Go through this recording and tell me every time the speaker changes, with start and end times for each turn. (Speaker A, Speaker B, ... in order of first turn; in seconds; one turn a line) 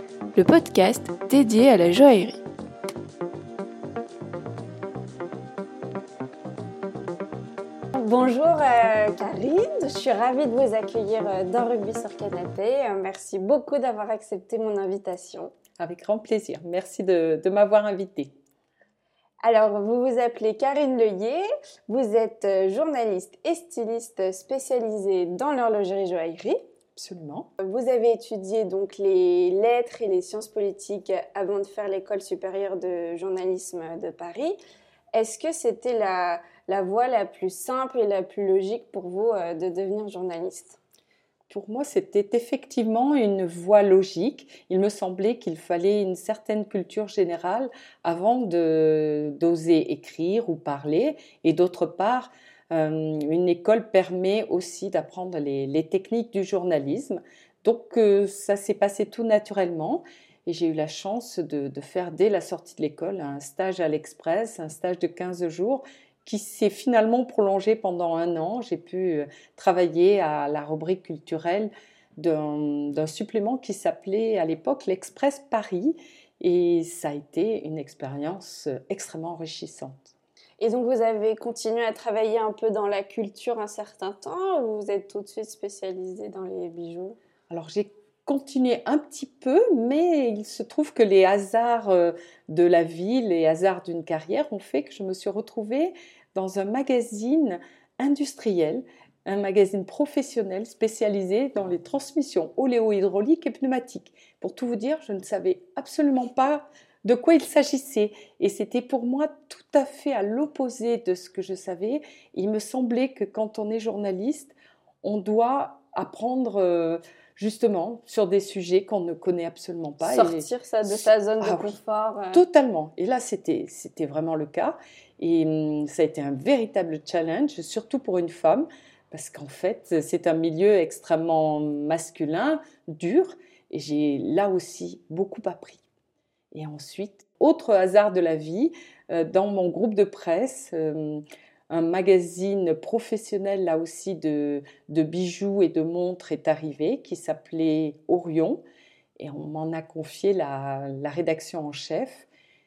Speaker A: 0.3-2.4
Speaker B: 7.9-15.5
Speaker C: 15.8-18.3
Speaker B: 19.4-26.6
Speaker C: 26.9-27.5
Speaker B: 27.6-34.6
Speaker B: 35.1-40.8
Speaker C: 41.5-80.1
Speaker B: 80.6-87.2
Speaker C: 87.5-121.8
Speaker B: 120.0-122.4
Speaker C: 122.3-135.8
Speaker C: 136.5-148.6
Speaker C: 149.2-152.3